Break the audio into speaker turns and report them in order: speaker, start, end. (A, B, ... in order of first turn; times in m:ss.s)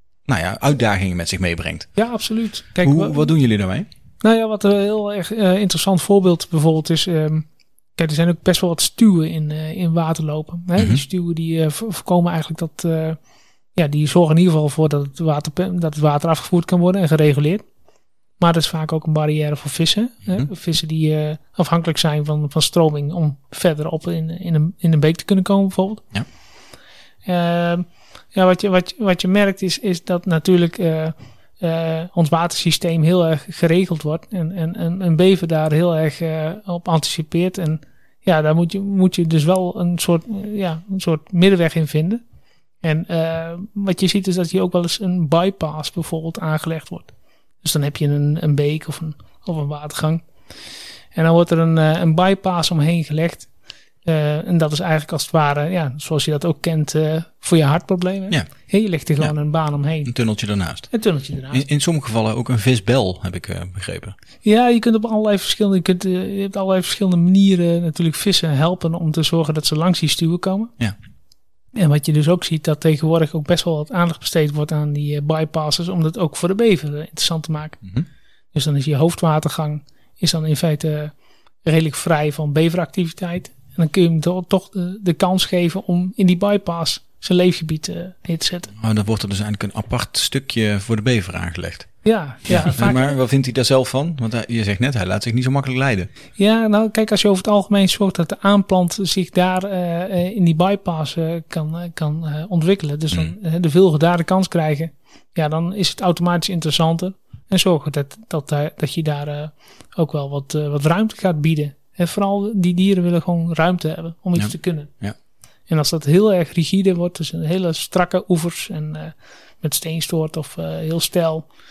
0:00.2-0:01.9 A
0:02.0-0:03.3 B
0:02.8-0:03.9 A
0:04.2-0:07.4 B
0:08.0-0:13.2 B
0:10.8-0:11.0 A
0:13.8-0:17.6 B
0:18.4-0:26.1 B
0:27.2-0:42.2 B
0:42.8-0:47.1 B
0:47.6-0:50.2 B
0:51.1-0:53.5 B
0:54.0-1:00.1 B
1:00.0-1:00.9 A
1:00.9-1:01.6 B
1:01.5-1:04.1 A
1:04.4-1:10.7 B
1:11.7-1:17.8 B
1:18.5-1:21.1 B
1:21.6-1:28.7 B
1:28.8-1:31.9 A
1:32.0-1:33.2 B
1:32.5-1:36.1 A
1:36.4-1:54.9 B
1:54.4-1:55.2 A
1:55.7-2:01.4 B